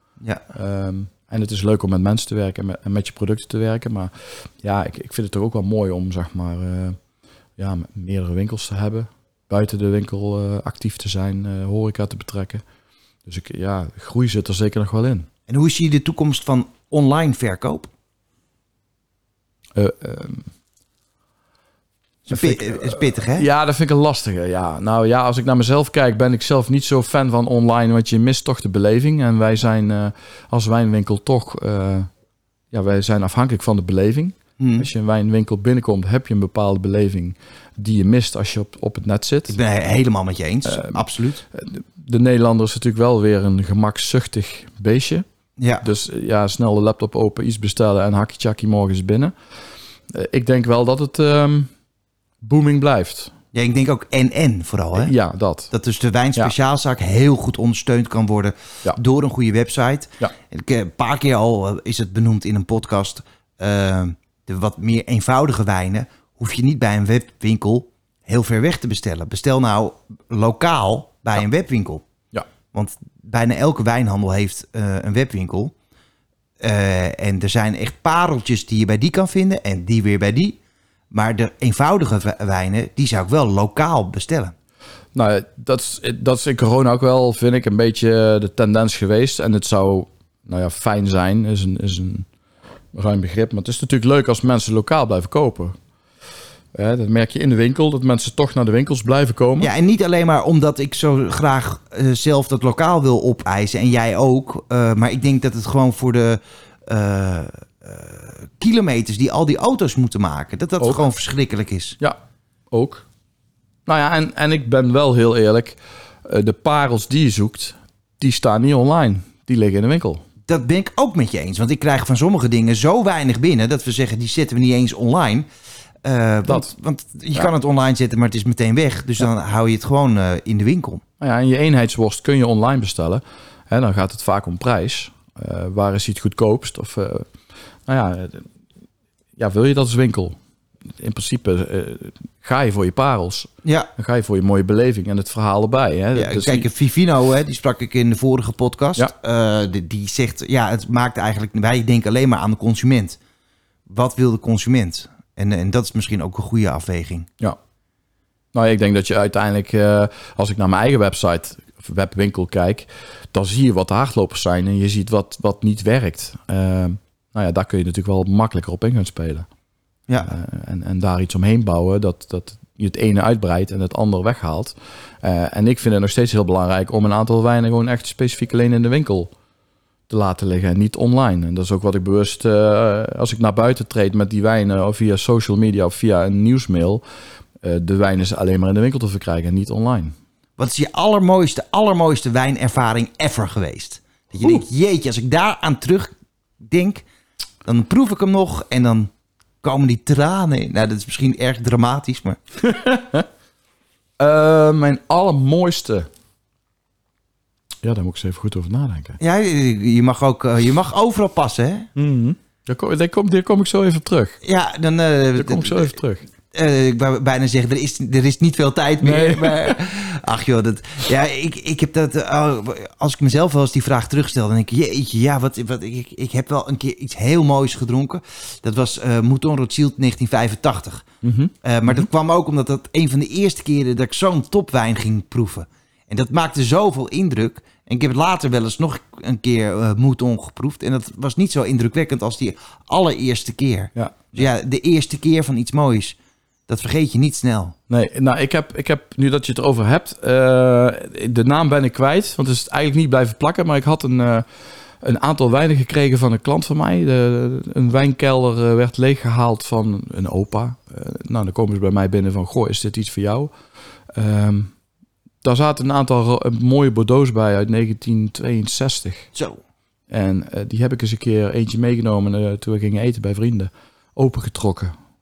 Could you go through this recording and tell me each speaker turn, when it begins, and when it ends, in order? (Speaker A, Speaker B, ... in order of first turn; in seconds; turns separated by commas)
Speaker A: 0.5-7.0, Speaker A: 7.6-12.6, Speaker A: 13.2-15.3, Speaker B: 15.5-17.9, Speaker A: 19.7-20.5, Speaker B: 22.2-23.5, Speaker A: 22.3-32.1, Speaker A: 32.7-39.6, Speaker B: 34.6-34.9, Speaker B: 39.5-41.4, Speaker A: 40.6-45.2, Speaker B: 45.6-45.9, Speaker A: 45.8-49.3, Speaker A: 50.1-51.7, Speaker A: 52.4-53.3, Speaker B: 53.5-55.1, Speaker A: 54.9-55.7, Speaker B: 55.7-72.0, Speaker B: 72.7-75.7, Speaker B: 76.6-80.6, Speaker B: 81.1-84.5, Speaker A: 85.1-92.3, Speaker A: 92.9-95.8, Speaker A: 96.7-99.7, Speaker B: 99.6-112.0, Speaker A: 112.7-113.0, Speaker A: 113.8-120.2, Speaker B: 120.5-125.5, Speaker B: 126.0-131.0, Speaker A: 131.2-137.3, Speaker A: 137.9-138.4, Speaker A: 139.4-140.4, Speaker A: 141.0-146.7, Speaker B: 143.6-143.9, Speaker B: 146.1-153.2, Speaker B: 153.9-157.3, Speaker A: 158.5-169.5, Speaker B: 170.1-170.3, Speaker A: 170.2-179.3, Speaker A: 180.1-187.0, Speaker A: 187.6-190.1, Speaker B: 190.6-197.0, Speaker B: 197.6-199.1, Speaker B: 199.6-202.4, Speaker A: 202.6-203.3, Speaker A: 204.2-206.1, Speaker A: 207.8-209.2, Speaker B: 209.2-211.9, Speaker A: 211.9-214.4, Speaker B: 214.4-216.0, Speaker A: 215.4-216.2, Speaker B: 216.5-231.1, Speaker A: 219.0-219.8, Speaker A: 231.2-232.1, Speaker B: 231.6-246.2, Speaker A: 243.9-244.4, Speaker B: 246.7-247.8, Speaker A: 247.9-254.5, Speaker A: 255.0-263.5, Speaker A: 264.1-264.7, Speaker A: 265.4-269.3, Speaker B: 269.3-269.6, Speaker A: 270.1-274.9